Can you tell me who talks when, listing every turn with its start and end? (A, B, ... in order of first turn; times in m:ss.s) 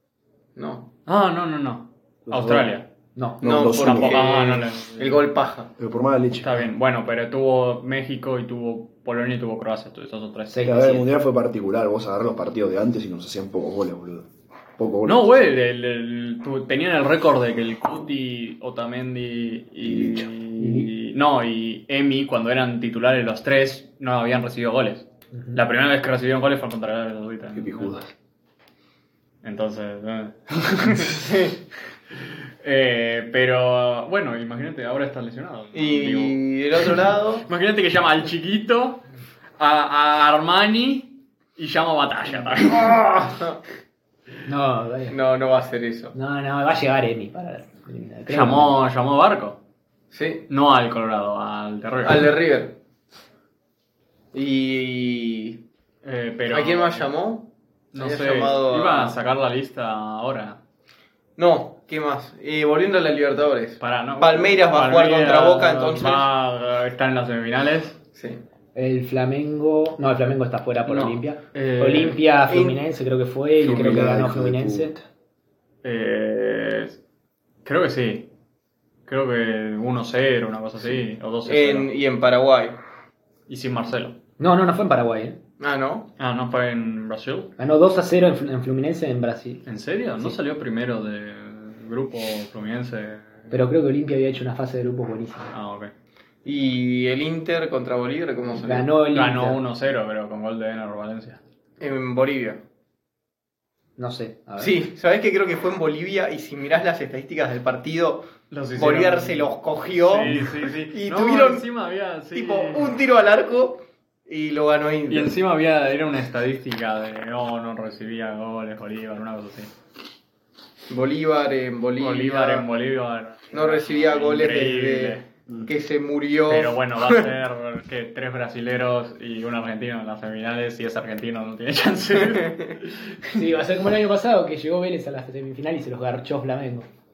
0:00.6-0:00.9 A
0:01.1-0:02.9 B
0:02.3-0:02.7 C
0:03.2-0:03.4 D
0:03.4-0:04.2 C
0:03.4-0:05.7 A
0:03.7-0:05.2 B
0:05.8-0:06.7 C
0:06.4-0:10.8 B
0:10.5-0:11.0 D
0:10.6-0:15.4 C
0:15.0-0:28.0 B
0:19.8-0:20.3 C
0:20.6-0:20.9 D
0:27.5-0:28.1 C
0:29.4-0:31.5 B
0:31.1-0:31.5 A
0:32.6-0:39.0 B
0:35.7-0:37.5 A
0:39.6-0:43.0 B
0:42.7-0:43.6 A
0:44.5-0:45.2 D
0:45.1-0:46.1 A
0:46.1-0:48.7 D
0:48.3-0:49.6 B
0:50.1-0:50.4 A
0:50.5-0:52.4 B
0:52.0-0:52.8 A
0:54.3-0:55.6 A
0:56.0-0:57.1 B
0:56.5-0:59.2 A
0:57.9-1:00.6 B
1:01.4-1:06.3 A
1:03.8-1:08.0 B
1:08.2-1:08.4 A
1:08.8-1:15.0 D
1:10.9-1:12.2 B
1:12.5-1:12.8 A
1:13.6-1:15.0 C
1:15.8-1:17.0 B
1:17.6-1:18.3 B
1:19.1-1:21.9 B
1:21.5-1:22.8 A
1:23.5-1:24.2 B
1:24.4-1:25.4 D
1:25.6-1:26.1 A
1:26.2-1:27.5 B
1:27.6-1:29.6 D
1:29.7-1:33.5 B
1:33.5-1:35.5 D
1:35.5-1:35.9 B
1:36.4-1:38.9 A
1:38.6-1:39.6 D
1:39.1-1:41.4 B
1:41.8-1:42.6 A
1:44.0-1:44.8 D
1:44.6-1:51.6 A
1:48.5-1:53.0 B
1:52.3-1:55.4 A
1:55.1-1:59.7 B
2:00.9-2:02.7 A
2:02.0-2:05.2 B
2:03.5-2:07.3 A
2:06.5-2:13.4 B
2:12.2-2:12.7 A
2:13.3-2:16.9 D